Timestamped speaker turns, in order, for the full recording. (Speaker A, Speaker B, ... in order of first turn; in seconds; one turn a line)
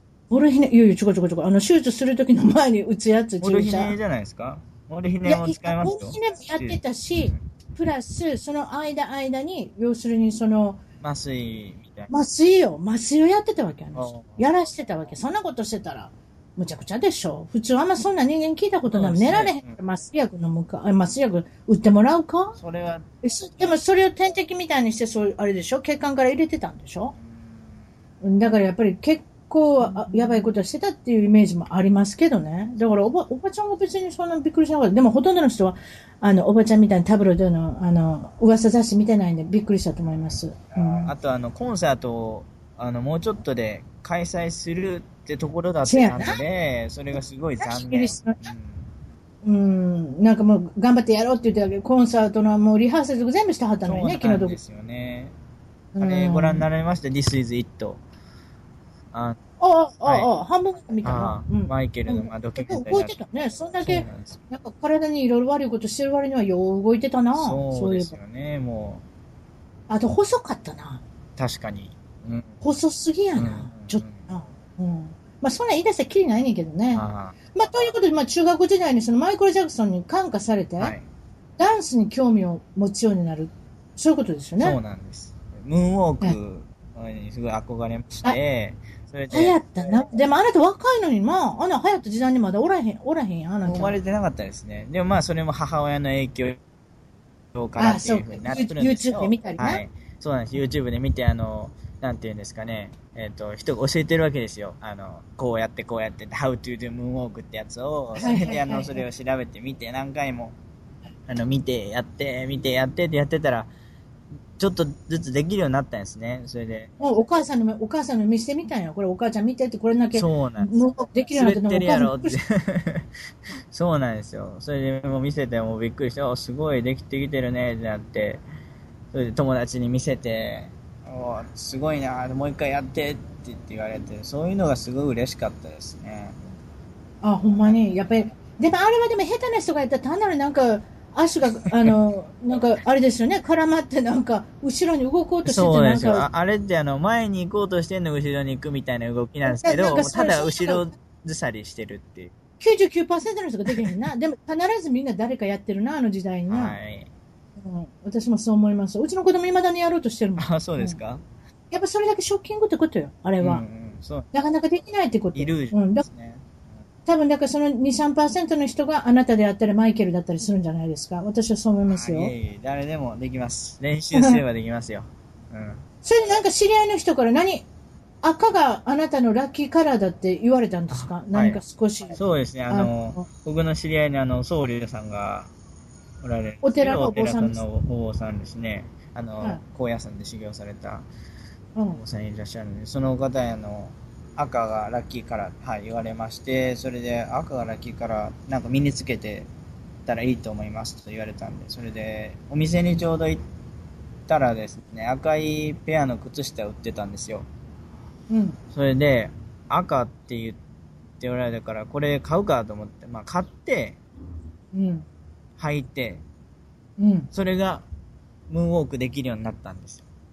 Speaker A: 0.3-4.0
Speaker B: 3.4-7.4
Speaker A: 5.2-10.8
Speaker B: 11.0-12.1
Speaker A: 12.1-22.6
Speaker B: 13.9-14.4
Speaker B: 18.9-19.8
Speaker B: 22.6-23.1
Speaker A: 23.2-27.1
Speaker A: 28.2-41.1
Speaker B: 40.8-48.9
Speaker A: 45.9-46.4
Speaker A: 47.6-48.5
Speaker A: 49.4-54.6
Speaker B: 53.8-55.3
Speaker A: 55.9-56.6
Speaker B: 56.0-58.0
Speaker B: 59.1-59.4
Speaker A: 59.6-68.2
Speaker B: 61.0-63.2
Speaker B: 63.8-64.4
Speaker B: 67.3-69.0
Speaker A: 69.9-71.0
Speaker B: 71.4-72.5
Speaker A: 72.6-80.9
Speaker B: 73.3-74.3
Speaker B: 76.9-77.4
Speaker A: 81.6-84.8
Speaker B: 84.6-89.6
Speaker A: 89.3-94.0
Speaker B: 93.6-96.6
Speaker B: 97.5-110.5
Speaker A: 97.8-99.8
Speaker A: 108.1-109.0
Speaker B: 111.3-113.7
Speaker B: 114.6-116.9
Speaker A: 117.0-122.3
Speaker B: 120.1-120.7
Speaker B: 121.3-123.1
Speaker B: 123.7-128.4
Speaker B: 129.1-136.4
Speaker A: 137.2-146.2
Speaker B: 145.4-152.3
Speaker A: 149.4-150.9
Speaker A: 152.6-156.8
Speaker B: 153.7-153.9
Speaker B: 156.5-157.1
Speaker A: 157.6-161.0
Speaker B: 160.4-161.2
Speaker A: 161.7-163.6
Speaker B: 163.4-164.3
Speaker A: 164.3-166.0
Speaker B: 165.3-166.7
Speaker A: 167.1-172.3
Speaker B: 171.9-175.8
Speaker A: 174.1-174.4
Speaker A: 176.0-177.7
Speaker A: 178.2-182.2
Speaker B: 180.9-181.6
Speaker B: 182.2-185.5
Speaker A: 182.7-183.3
Speaker B: 186.2-191.1
Speaker A: 186.6-187.6
Speaker A: 191.8-192.0
Speaker B: 191.9-199.5
Speaker B: 200.1-203.4
Speaker B: 204.3-207.5
Speaker A: 208.3-208.6
Speaker B: 208.7-210.6
Speaker B: 211.2-214.0
Speaker A: 214.7-215.1
Speaker B: 215.6-216.2
Speaker A: 217.0-217.3
Speaker B: 217.3-217.8
Speaker B: 218.5-220.1